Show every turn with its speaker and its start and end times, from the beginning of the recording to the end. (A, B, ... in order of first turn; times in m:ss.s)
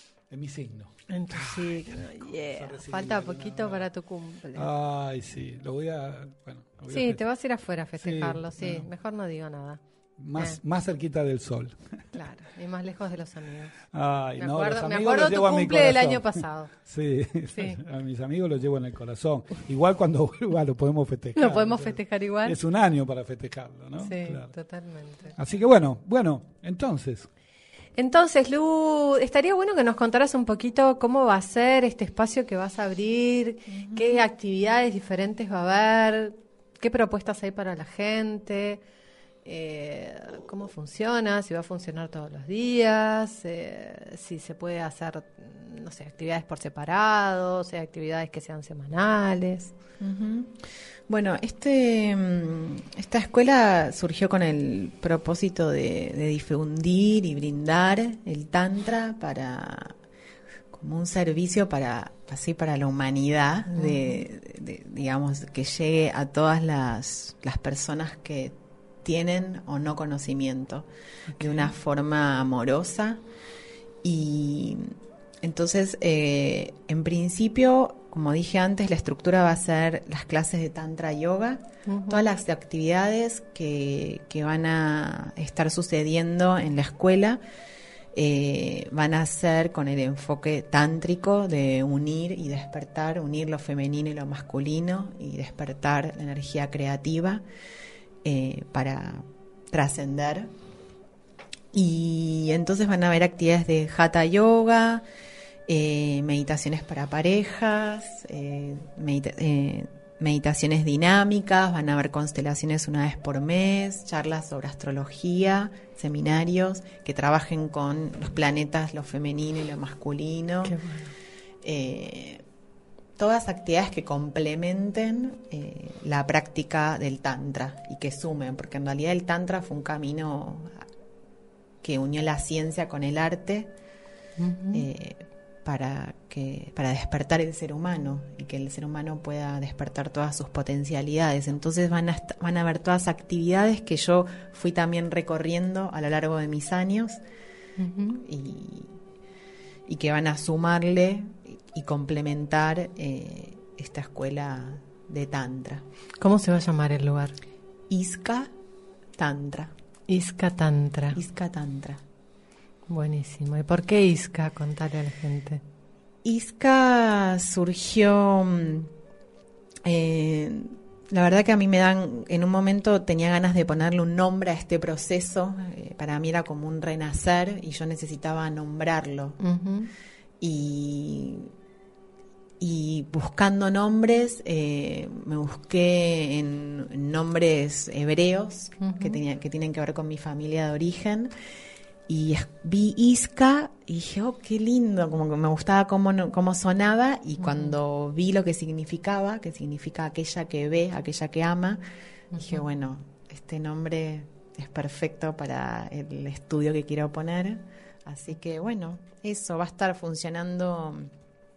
0:00.3-0:03.9 A
0:01.1-0:04.7 B
0:04.5-0:07.2 A
0:06.9-0:09.8 B
0:08.0-0:08.9 A
0:10.2-0:11.8 A
0:12.1-0:13.8 B
0:13.9-0:24.5 A
0:14.4-0:16.7 B
0:17.5-0:17.8 B
0:21.4-0:22.6 B
0:24.0-0:25.4 B
0:25.4-0:27.3 A
0:28.0-0:38.8 B
0:33.7-0:34.2 C
0:39.4-0:49.7 B
0:50.0-1:00.0 C
1:00.7-1:13.2 C
1:03.8-1:04.2 B
1:11.3-1:11.7 B
1:14.0-1:27.4 C
1:21.9-1:22.3 B
1:28.1-1:37.4 C
1:38.2-1:40.5 C
1:41.7-1:45.0 C
1:45.7-2:00.8 C
2:00.6-2:01.1 B
2:01.6-2:02.4 C
2:03.2-2:10.8 C
2:11.8-2:13.7 C
2:14.4-2:14.9 B
2:14.7-2:27.2 C
2:27.8-2:28.2 B
2:28.2-2:29.0 C
2:29.9-2:35.8 C
2:36.2-2:37.4 B
2:37.9-2:38.5 C
2:39.2-2:39.7 C
2:40.1-2:41.2 B
2:41.1-2:42.0 C
2:42.9-2:45.6 B
2:46.2-2:48.9 C
2:49.9-2:59.4 C
2:59.4-2:59.9 B
3:00.4-3:01.5 C
3:02.6-3:11.3 C
3:08.8-3:09.2 B
3:12.1-3:21.8 C
3:17.4-3:17.8 B
3:22.3-3:22.6 B
3:22.3-3:31.1 C